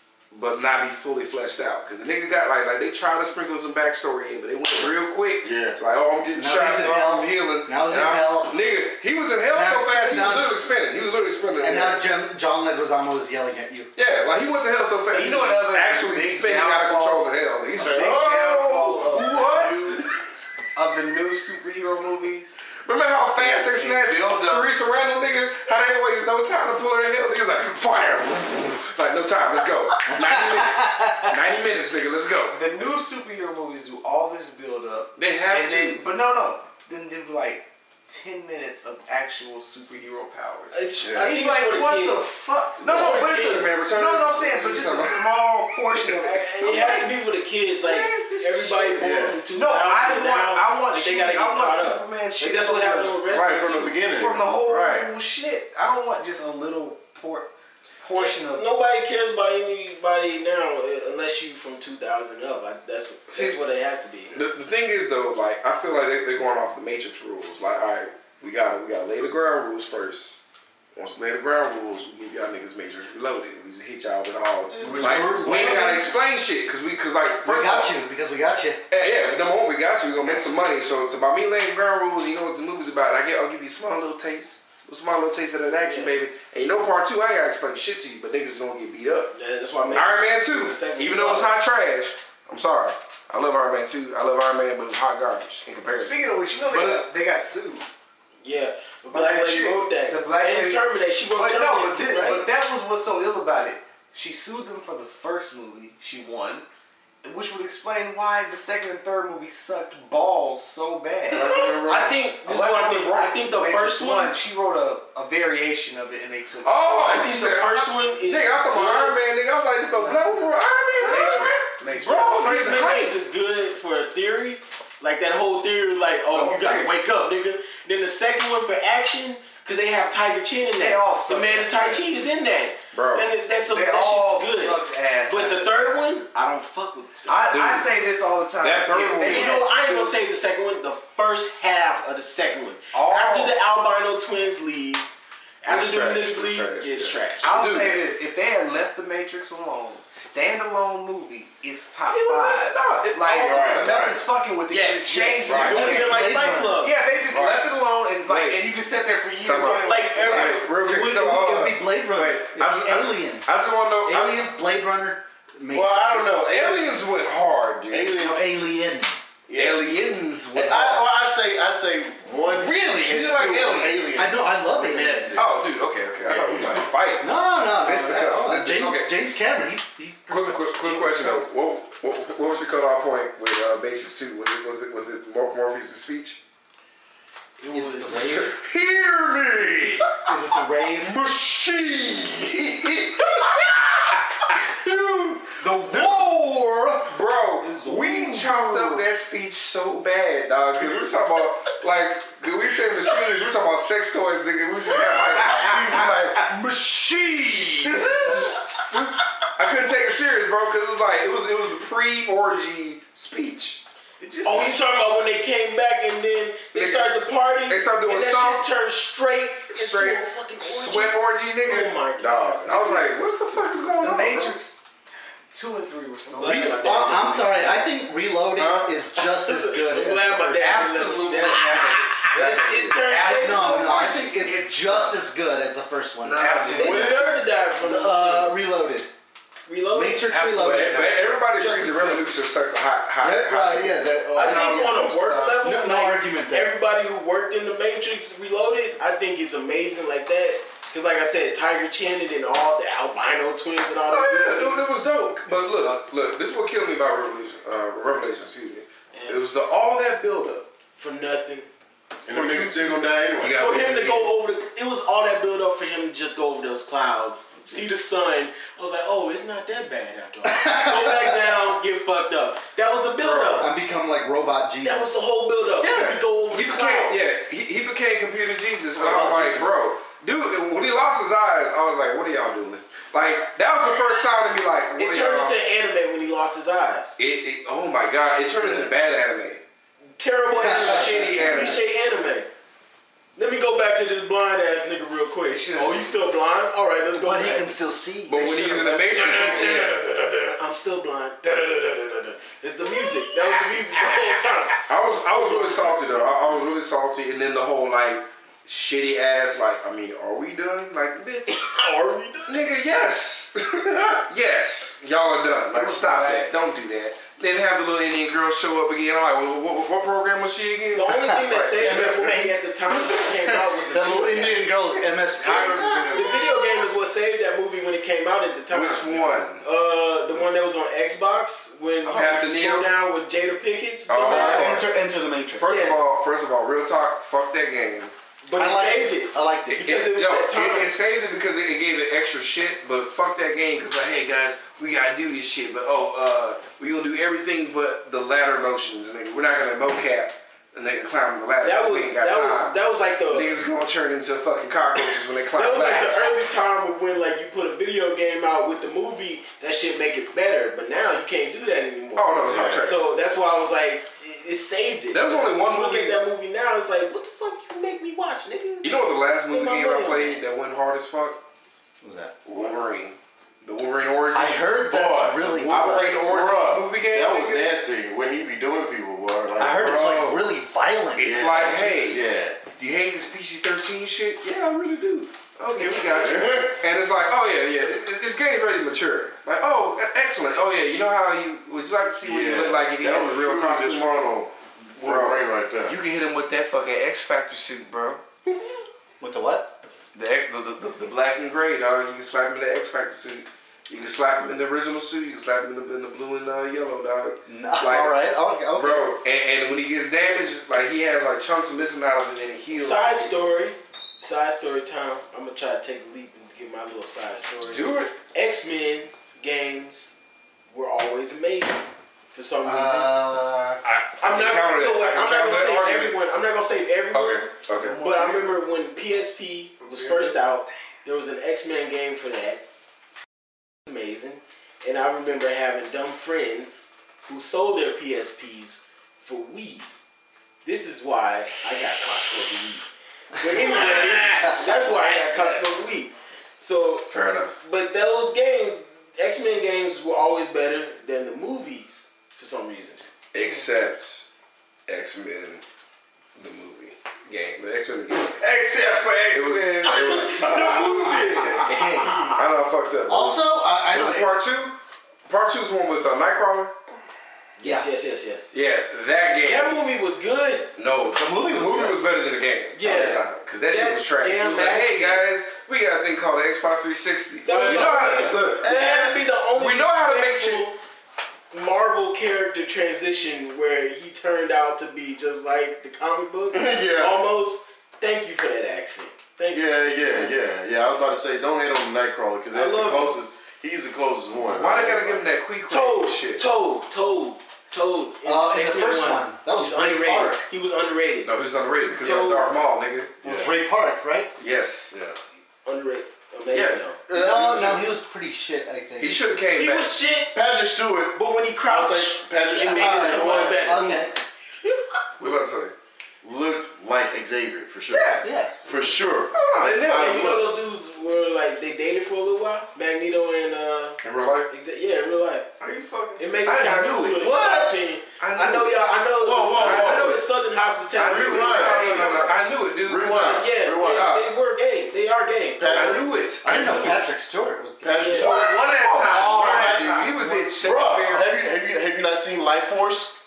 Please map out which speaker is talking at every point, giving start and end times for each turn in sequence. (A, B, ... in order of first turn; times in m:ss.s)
0:00.3-0:12.0 A
0:04.7-0:05.8 B
0:06.4-0:08.6 C
0:09.5-0:10.5 C
0:11.6-0:13.9 C
0:13.9-0:20.1 A
0:15.1-0:19.9 D
0:17.8-0:18.4 B
0:19.2-0:20.0 B
0:20.7-0:22.6 D
0:22.8-0:32.6 A
0:23.4-0:24.7 D
0:30.1-0:31.4 C
0:32.5-0:47.1 D
0:35.2-0:36.0 A
0:40.7-0:42.2 E
0:41.0-0:41.3 B
0:42.8-0:45.4 A
0:42.8-0:43.7 E
0:46.1-0:54.0 E
0:47.8-0:53.2 D
0:49.0-0:49.4 B
0:53.3-0:55.1 B
0:54.2-0:57.5 D
0:58.0-0:58.6 D
0:58.1-1:04.4 E
1:03.3-1:03.6 A
1:04.3-1:10.4 A
1:10.9-1:17.9 A
1:14.7-1:15.9 B
1:14.8-1:16.1 C
1:17.4-1:18.8 C
1:18.9-1:29.3 A
1:20.2-1:20.6 C
1:25.8-1:26.1 E
1:29.3-1:31.5 E
1:29.9-1:37.0 A
1:35.9-1:37.9 D
1:38.4-1:42.4 E
1:39.1-1:46.6 D
1:47.2-1:51.6 D
1:51.3-1:52.1 A
1:51.3-1:54.3 E
1:52.4-1:56.9 D
1:56.6-2:03.1 A
1:57.0-1:59.2 E
2:00.0-2:00.3 D
2:01.0-2:02.7 D
2:01.0-2:01.4 E
2:02.0-2:17.4 E
2:06.3-2:07.0 D
2:10.8-2:12.0 D
2:12.9-2:13.3 A
2:13.6-2:16.0 D
2:17.2-2:20.1 D
2:17.5-2:17.9 A
2:18.6-2:19.6 A
2:19.2-2:25.1 E
2:22.9-2:23.5 D
2:25.6-2:27.5 E
2:25.7-2:28.0 A
2:27.4-2:40.6 D
2:32.0-2:34.0 A
2:33.4-2:34.2 B
2:34.7-2:36.9 E
2:35.4-2:35.9 A
2:35.5-2:35.8 B
2:35.7-2:36.8 C
2:37.3-2:37.6 B
2:38.3-2:38.6 A
2:39.4-2:44.4 A
2:39.5-2:41.4 E
2:41.0-2:43.5 C
2:44.0-2:46.3 C
2:45.7-2:47.0 B
2:46.2-2:48.2 A
2:47.9-2:48.4 B
2:48.2-2:49.2 C
2:49.5-2:49.9 B
2:49.6-2:51.1 A
2:50.5-2:55.5 B
2:52.4-2:54.2 A
2:54.1-2:55.4 C
2:55.3-2:59.1 A
2:56.2-2:56.9 B
2:57.2-3:01.5 C
3:00.3-3:06.4 A
3:07.6-3:08.4 E
3:07.7-3:08.6 C
3:08.1-3:10.2 A
3:10.1-3:11.2 C
3:11.0-3:13.0 A
3:14.5-3:16.3 A
3:15.6-3:19.0 C
3:17.0-3:33.8 A
3:24.9-3:26.2 D
3:24.9-3:28.4 C
3:34.2-3:34.8 D
3:34.4-3:43.2 E
3:36.7-3:38.7 A
3:39.7-3:44.5 A
3:44.0-3:44.8 D
3:45.5-3:47.1 D
3:46.2-3:47.8 E
3:46.4-3:50.8 C
3:48.6-3:48.9 B
3:49.1-3:54.2 E
3:50.7-3:55.2 D
3:51.5-3:52.2 C
3:51.9-3:53.1 A
3:53.1-3:57.2 C
3:56.2-3:57.2 A
3:56.4-3:57.4 D
3:56.7-3:58.6 E
3:56.9-3:57.3 B
3:57.7-3:59.1 C
3:59.7-4:00.4 E
3:59.9-4:02.4 C
4:00.3-4:01.1 D
4:00.5-4:04.2 A
4:03.2-4:04.9 C
4:04.3-4:05.7 D
4:04.3-4:14.8 E
4:05.6-4:06.7 C
4:14.1-4:20.7 A
4:15.5-4:16.1 D
4:19.1-4:19.4 E
4:21.0-4:21.6 E
4:22.2-4:23.6 B
4:23.4-4:24.3 A
4:23.5-4:33.7 E
4:30.4-4:31.4 C
4:33.2-4:33.7 A
4:33.6-4:35.1 C
4:34.8-4:37.3 E
4:35.8-4:45.6 A
4:39.0-4:39.7 C
4:45.0-4:47.2 E
4:47.2-4:49.6 A
4:50.2-4:52.5 E
4:50.6-4:51.8 C
4:50.6-4:51.8 A
4:53.4-4:57.7 E
4:55.7-4:56.1 D
4:57.1-4:59.6 C
4:58.3-5:00.0 A
4:58.4-4:59.4 D
4:59.1-5:06.6 E
5:04.9-5:11.8 A
5:11.5-5:12.6 E
5:12.5-5:22.1 A
5:15.7-5:16.5 D
5:20.9-5:24.6 E
5:21.3-5:26.4 C
5:25.4-5:26.4 B
5:26.1-5:34.9 E
5:28.7-5:29.6 A
5:32.0-5:32.9 A
5:34.1-5:34.9 A
5:34.2-5:35.7 C
5:35.6-5:38.1 A
5:35.6-5:36.0 E
5:38.4-5:41.0 E
5:38.5-5:39.9 C
5:39.7-5:52.8 A
5:51.6-5:53.5 E
5:53.3-5:56.3 A
5:55.0-6:08.9 E
6:02.2-6:03.0 A
6:02.5-6:02.9 B
6:05.1-6:06.2 A
6:08.8-6:11.4 A
6:09.5-6:10.4 E
6:12.0-6:12.3 C
6:12.4-6:14.8 A
6:14.3-6:16.1 C
6:14.8-6:20.3 B
6:15.4-6:17.8 A
6:19.6-6:22.0 C
6:19.8-6:20.4 A
6:21.2-6:22.2 A
6:21.2-6:22.6 B
6:22.8-6:34.2 A
6:25.9-6:26.8 B
6:32.2-6:36.0 B
6:35.0-6:38.2 A
6:39.2-6:39.7 C
6:40.1-6:48.2 A
6:47.5-6:49.2 C
6:48.7-6:53.3 A
6:52.7-7:00.1 E
6:57.6-6:58.1 A
7:00.7-7:03.2 E
7:02.6-7:03.8 C
7:03.8-7:06.2 A
7:04.2-7:07.5 E
7:07.1-7:08.0 A
7:07.8-7:08.5 D
7:08.0-7:12.6 E
7:09.8-7:10.5 D
7:13.8-7:19.9 E
7:20.6-7:27.1 E
7:23.9-7:24.4 A
7:27.1-7:27.5 A
7:27.6-7:33.0 E
7:33.3-7:34.3 A
7:34.9-7:35.6 A
7:36.4-7:38.4 A
7:38.4-7:41.2 D
7:39.3-7:41.6 A
7:39.9-7:42.4 E
7:40.4-7:41.4 B
7:42.3-7:44.8 A
7:43.1-7:44.3 C
7:45.3-7:46.7 A
7:47.6-7:48.5 E
7:48.5-7:49.8 A
7:49.4-7:50.7 E
7:50.8-7:59.0 A
7:51.1-7:52.0 C
7:52.7-7:55.2 E
7:57.4-8:00.8 E
7:57.5-7:59.1 B
7:59.5-8:00.6 A
8:01.5-8:09.9 E
8:06.5-8:07.2 B
8:09.5-8:15.2 B
8:12.5-8:13.1 E
8:14.4-8:16.4 A
8:15.7-8:21.3 E
8:18.2-8:20.4 C
8:21.2-8:23.2 A
8:22.0-8:22.4 E
8:23.2-8:23.5 B
8:23.2-8:24.3 C
8:24.4-8:24.9 A
8:24.9-8:25.2 B
8:25.6-8:27.0 E
8:26.5-8:26.8 A
8:27.1-8:27.9 B
8:27.1-8:29.2 C
8:29.0-8:29.9 A
8:29.6-8:30.3 E
8:30.3-8:33.7 B
8:31.1-8:34.1 E
8:32.6-8:34.1 C
8:35.2-8:35.7 A
8:36.2-8:40.4 B
8:37.9-8:38.2 A
8:38.2-8:38.5 C
8:39.3-8:40.4 A
8:39.8-8:45.5 E
8:44.0-8:44.5 A
8:45.6-8:46.8 D
8:46.2-8:52.3 E
8:46.4-8:47.6 A
8:47.2-8:47.9 B
8:48.1-8:49.0 A
8:49.2-8:50.2 B
8:49.6-8:50.2 A
8:51.0-8:54.4 A
8:51.0-8:52.2 B
8:51.9-8:52.3 D
8:52.8-8:54.1 B
8:53.2-8:56.0 E
8:55.6-8:56.1 B
8:55.7-8:57.1 A
8:56.4-8:58.3 C
8:57.8-9:03.2 B
8:58.0-8:58.4 E
8:58.2-9:00.5 D
8:58.3-9:01.4 A